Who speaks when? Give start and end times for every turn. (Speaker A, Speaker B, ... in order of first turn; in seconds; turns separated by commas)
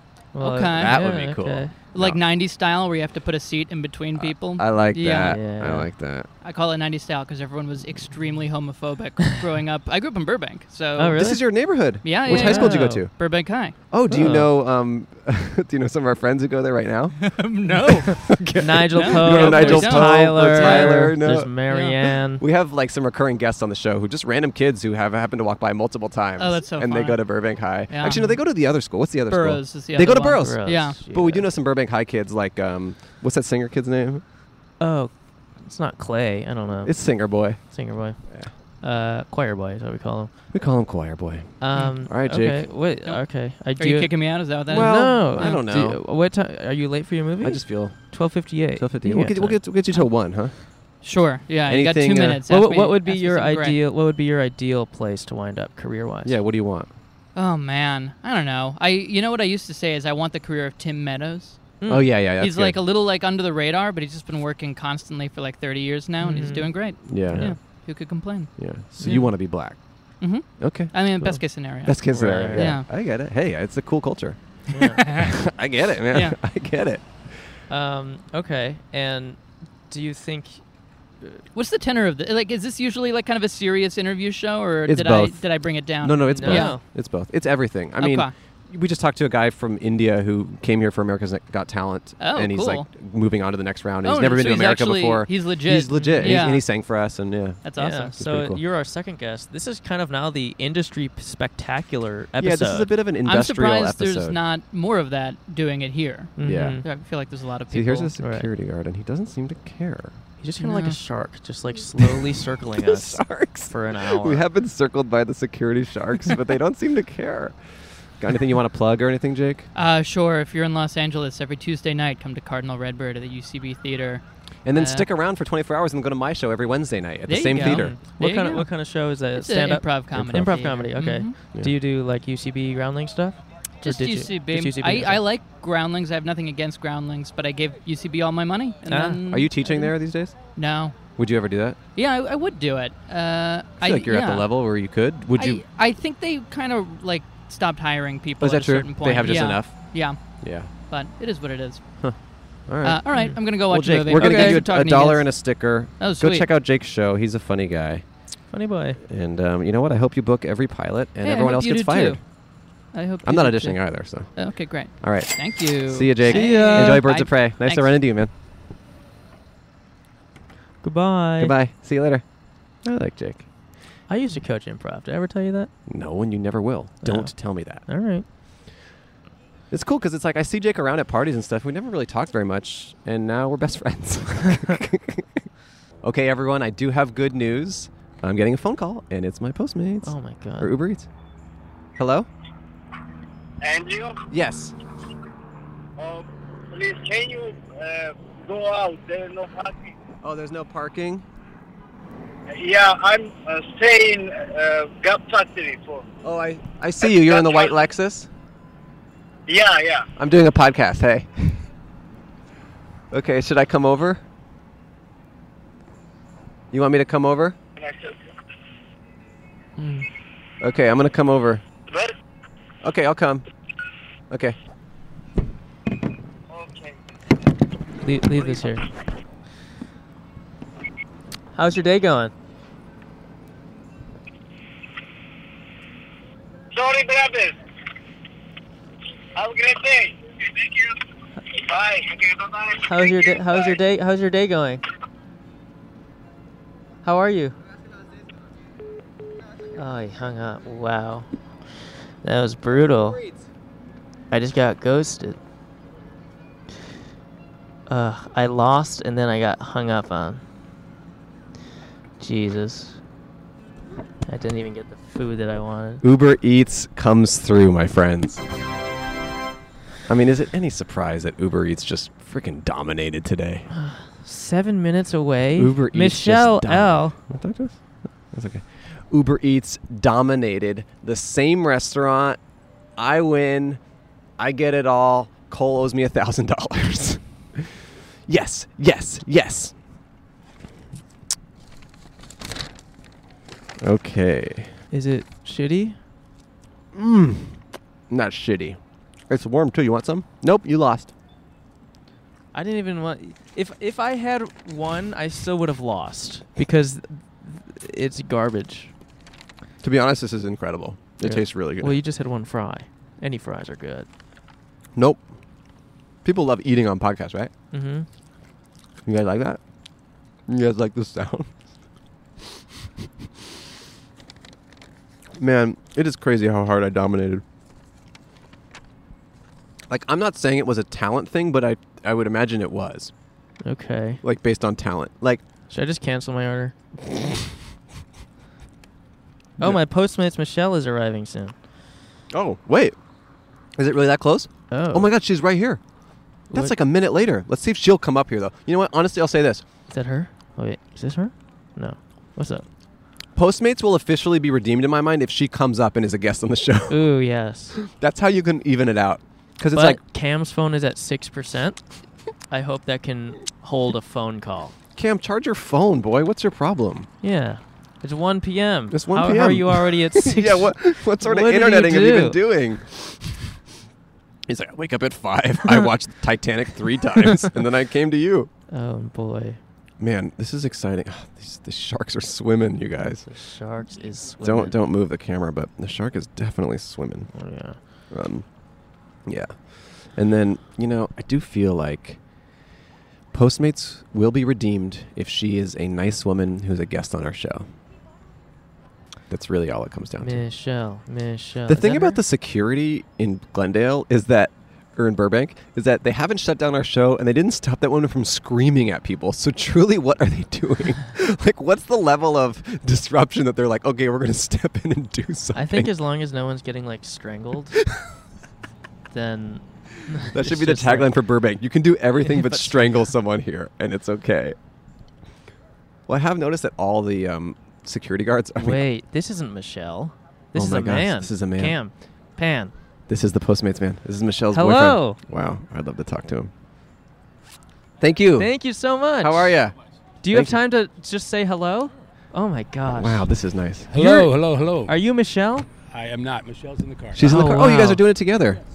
Speaker A: 0.3-1.7, Speaker B: 0.4-1.0, Speaker C: 0.7-2.2, Speaker B: 1.9-5.4, Speaker C: 4.2-6.3, Speaker A: 5.2-5.9, Speaker B: 6.4-11.2, Speaker A: 11.0-11.4, Speaker C: 11.2-13.1, Speaker B: 12.0-13.8, Speaker A: 12.2-13.1, Speaker C: 13.9-21.7, Speaker A: 14.1-14.5, Speaker B: 17.2-18.4, Speaker A: 18.6-22.4, Speaker B: 19.0-22.0, Speaker C: 22.2-34.2, Speaker B: 26.4-27.2, Speaker B: 27.9-28.4, Speaker B: 29.3-31.0, Speaker A: 30.3-31.5, Speaker A: 34.8-40.3, Speaker C: 36.8-38.5, Speaker C: 40.5-42.8, Speaker A: 41.6-44.1, Speaker B: 41.8-42.0, Speaker B: 43.0-45.6, Speaker C: 44.7-46.0, Speaker A: 44.7-49.7, Speaker C: 47.4-51.0, Speaker B: 51.0-53.8, Speaker C: 51.7-52.4, Speaker A: 52.5-56.4, Speaker C: 56.2-56.9, Speaker B: 57.4-69.4, Speaker A: 61.8-62.1, Speaker C: 61.9-62.8, Speaker A: 66.2-67.6, Speaker C: 67.0-67.6, Speaker C: 68.6-71.1, Speaker A: 69.0-69.3, Speaker B: 70.2-72.9, Speaker C: 71.8-77.5, Speaker A: 72.1-72.7, Speaker A: 74.7-75.0, Speaker B: 75.0-75.3, Speaker B: 76.1-76.4, Speaker A: 77.7-80.6, Speaker B: 81.5-86.8, Speaker C: 84.9-97.6, Speaker A: 86.3-86.8, Speaker B: 88.0-88.3, Speaker B: 92.2-92.9, Speaker B: 94.0-96.7, Speaker A: 96.0-96.4, Speaker B: 97.6-98.2, Speaker A: 97.8-102.9, Speaker C: 98.2-98.6, Speaker C: 102.4-104.4, Speaker B: 103.2-108.1, Speaker A: 106.4-106.9, Speaker C: 106.4-106.9, Speaker C: 107.7-110.2, Speaker A: 108.2-108.5, Speaker A: 110.4-114.4, Speaker B: 110.6-111.0, Speaker C: 112.0-119.7, Speaker B: 119.7-125.1, Speaker C: 124.7-128.0, Speaker B: 127.3-128.7, Speaker A: 127.5-135.2, Speaker B: 129.3-131.4, Speaker B: 133.8-139.9, Speaker A: 138.9-139.2, Speaker C: 139.3-140.4, Speaker B: 140.6-141.0, Speaker C: 141.2-141.8, Speaker B: 141.9-144.5, Speaker C: 143.8-145.6, Speaker B: 145.4-150.2, Speaker C: 148.4-150.7, Speaker B: 150.9-151.8, Speaker C: 152.0-158.1, Speaker B: 152.8-156.5, Speaker A: 153.2-153.4, Speaker A: 154.1-154.7, Speaker A: 158.5-159.0, Speaker C: 159.1-162.2, Speaker B: 161.2-162.2, Speaker B: 162.9-168.0, Speaker C: 163.2-168.3, Speaker A: 166.2-167.1, Speaker A: 170.8-171.6, Speaker C: 171.4-172.2, Speaker C: 172.8-173.5, Speaker A: 174.1-175.7, Speaker C: 175.9-177.9, Speaker A: 177.0-178.2, Speaker C: 179.7-185.4, Speaker C: 186.0-191.1, Speaker A: 190.0-190.7, Speaker C: 192.0-192.3, Speaker D: 193.6-194.2, Speaker C: 194.3-194.8, Speaker D: 196.0-199.9, Speaker C: 200.2-201.2, Speaker D: 202.5-206.1, Speaker C: 206.2-208.3, Speaker D: 207.0-207.8, Speaker D: 209.5-210.1, Speaker C: 210.2-211.7, Speaker C: 213.1-214.2, Speaker C: 216.7-217.6, Speaker D: 217.8-218.3, Speaker A: 219.8-220.1, Speaker C: 220.6-221.6, Speaker D: 221.9-222.1, Speaker C: 222.8-223.4, Speaker C: 224.3-224.6, Speaker D: 226.5-227.0, Speaker A: 228.0-228.9, Speaker A: 231.5-232.3, Speaker D: 236.7-237.6, Speaker D: 239.3-241.0, Speaker D: 241.6-243.8, Speaker A: 242.8-244.8, Speaker A: 247.0-247.6, Speaker A: 249.8-251.3, Speaker A: 252.2-253.2, Speaker A: 254.3-255.4, Speaker A: 257.9-260.4, Speaker A: 262.2-263.0, Speaker A: 264.3-266.0, Speaker C: 266.0-268.4, Speaker C: 270.1-273.7, Speaker A: 273.7-277.2, Speaker C: 275.6-282.4, Speaker C: 283.0-283.8, Speaker C: 284.4-289.8, Speaker C: 293.8-294.7, Speaker A: 294.9-296.0, Speaker C: 296.9-301.1, Speaker A: 302.5-308.9, Speaker C: 309.8-312.0, Speaker A: 311.2-314.1, Speaker C: 314.9-315.3, Speaker C: 316.2-317.5, Speaker A: 317.7-318.1, Speaker C: 319.1-319.6, Speaker C: 320.5-321.5, Speaker C: 325.4-327.4, Speaker C: 329.9-333.1, Speaker A: 333.6-334.2, Speaker C: 334.2-335.4, Speaker A: 335.7-336.7, Speaker A: 339.6-341.6, Speaker C: 342.3-343.0, Speaker C: 343.8-345.8, Speaker A: 344.7-345.1, Speaker A: 346.5-346.8, Speaker C: 346.5-349.6, Speaker A: 349.9-352.6, Speaker C: 353.4-357.0, Speaker A: 356.9-357.8, Speaker C: 357.8-360.0, Speaker A: 359.7-361.8, Speaker A: 362.5-364.8, Speaker C: 365.0-367.1, Speaker A: 367.2-372.4, Speaker C: 368.9-373.5, Speaker C: 374.5-378.5, Speaker A: 378.7-379.6, Speaker C: 380.0-383.3, Speaker A: 383.2-384.8, Speaker C: 384.4-387.4, Speaker A: 387.3-387.8, Speaker C: 388.1-388.5, Speaker C: 389.2-392.2, Speaker C: 393.3-397.7, Speaker C: 399.3-400.4, Speaker A: 400.2-402.2, Speaker C: 401.7-415.9, Speaker A: 415.5-417.8, Speaker A: 419.1-421.1, Speaker C: 420.2-424.6, Speaker A: 422.2-423.1, Speaker C: 426.1-428.8, Speaker A: 428.6-432.7, Speaker C: 430.5-431.8, Speaker C: 433.1-436.5, Speaker A: 434.5-435.2, Speaker C: 438.0-438.5, Speaker A: 438.4-439.6, Speaker C: 439.2-439.8, Speaker A: 440.2-443.2, Speaker C: 440.3-440.6, Speaker C: 442.9-443.9, Speaker E: 443.9-444.9, Speaker A: 443.9-445.7, Speaker E: 445.9-447.3, Speaker C: 447.1-448.6, Speaker A: 447.2-448.0